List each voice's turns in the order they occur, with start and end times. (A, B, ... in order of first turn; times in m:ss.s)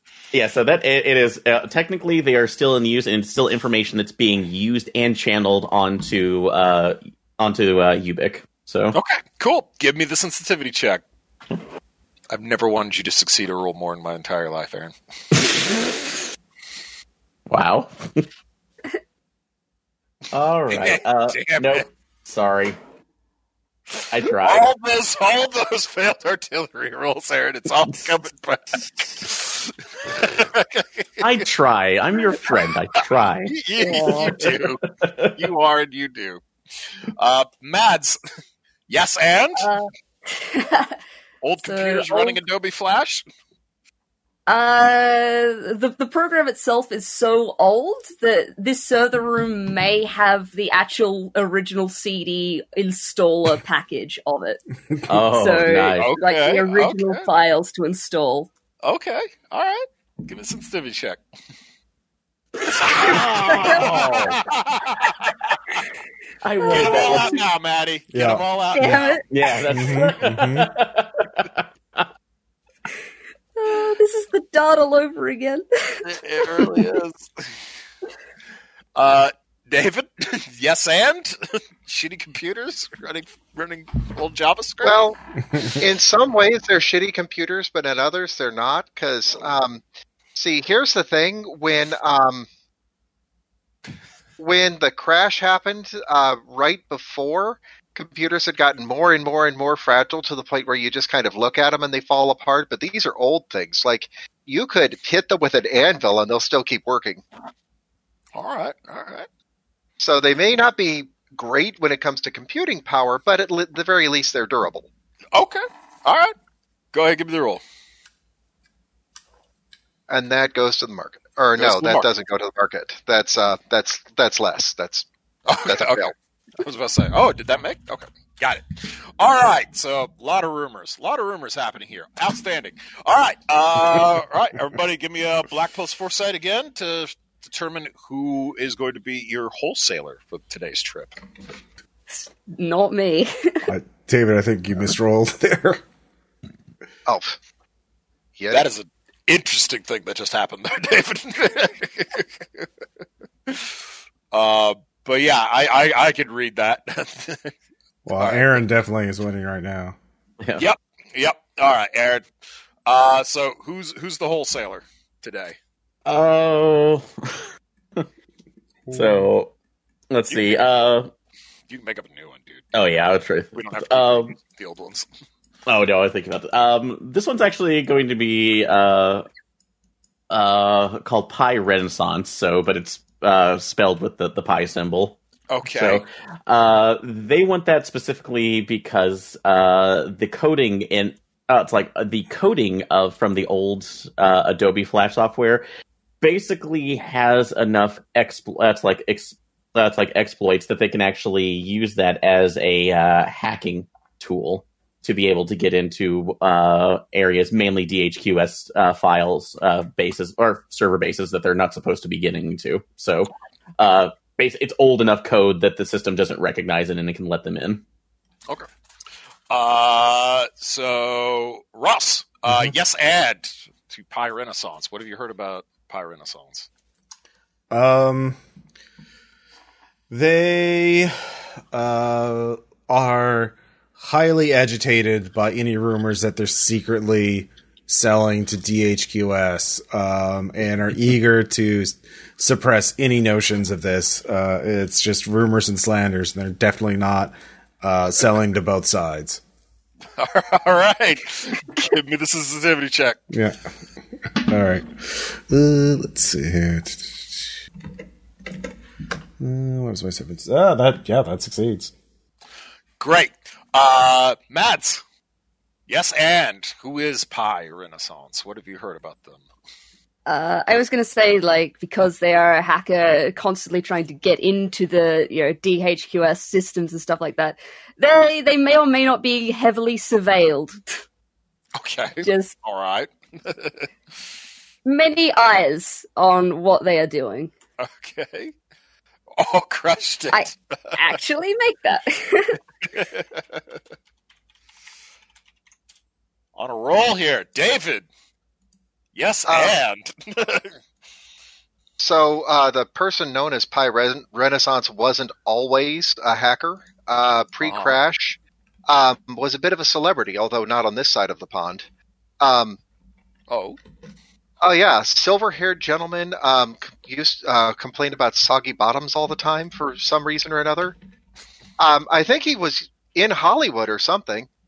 0:00.3-0:09.0 A
0:08.9-0:11.0 B
0:12.3-0:14.9 B
0:17.5-0:18.2 A
0:20.3-0:22.8 A
0:20.7-0:21.8 B
0:24.0-0:31.4 B
0:24.1-0:24.7 A
0:27.8-0:28.2 A
0:31.2-0:35.5 A
0:32.4-0:34.8 B
0:33.8-0:34.4 C
0:35.4-0:36.4 B
0:37.2-0:38.2 B
0:38.9-0:39.6 B
0:39.6-0:41.0 C
0:41.4-0:43.2 B
0:41.6-0:42.4 C
0:44.5-0:54.6 C
0:55.1-0:56.1 A
0:55.2-0:58.5 C
0:56.0-0:57.2 B
0:58.8-1:01.2 B
1:02.7-1:05.6 B
1:02.8-1:04.4 A
1:03.0-1:04.3 C
1:06.4-1:07.4 A
1:06.6-1:07.4 C
1:06.7-1:09.2 B
1:08.1-1:09.0 D
1:08.7-1:10.2 C
1:09.3-1:12.0 A
1:09.7-1:10.7 D
1:13.6-1:16.7 C
1:16.0-1:17.5 B
1:19.0-1:25.0 B
1:24.8-1:29.8 E
1:25.5-1:25.8 D
1:30.3-1:32.5 E
1:34.4-1:47.2 E
1:48.3-1:49.3 B
1:50.0-1:54.9 E
1:55.3-1:56.3 B
1:56.9-1:57.6 B
2:00.1-2:05.1 E
2:01.6-2:02.1 B
2:05.5-2:21.1 B
2:05.6-2:06.1 E
2:22.1-2:23.7 C
2:23.7-2:25.8 D
2:27.0-2:27.4 E
2:28.4-2:28.6 E
2:28.5-2:32.6 B
2:34.3-2:37.5 B
2:38.0-2:40.0 D
2:38.2-2:38.6 B
2:40.4-2:40.7 A
2:40.6-2:42.2 B
2:42.8-2:45.6 B
2:46.0-2:48.0 A
2:48.8-2:49.3 D
2:48.9-2:49.5 A
2:50.1-2:51.1 A
2:50.3-2:50.7 B
2:51.7-2:52.7 B
2:52.7-2:54.3 A
2:53.6-2:55.1 B
2:55.6-2:59.2 A
3:00.3-3:05.2 A
3:05.5-3:06.0 B
3:05.7-3:15.6 A
3:16.2-3:37.8 A
3:39.5-3:46.7 B
3:42.5-3:42.7 D
3:47.7-3:48.4 D
3:50.1-3:51.1 D
3:51.7-4:09.4 D
4:10.2-4:13.2 B
4:13.3-4:13.6 D
4:14.3-4:17.6 D
4:19.4-4:21.9 D
4:23.0-4:25.0 B
4:25.9-4:29.4 B
4:30.2-4:40.8 C
4:41.8-4:43.9 B
4:42.2-4:42.5 C
4:44.8-4:47.5 C
4:47.8-4:48.5 B
4:49.4-4:51.0 B
4:50.3-4:52.6 C
4:52.9-4:53.6 B
4:56.6-4:58.1 B
4:59.1-5:00.7 B
4:59.5-4:59.8 E
5:02.0-5:11.8 E
5:07.6-5:08.0 B
5:12.4-5:12.8 E
5:13.5-5:13.8 B
5:14.6-5:21.0 E
5:21.8-5:24.5 E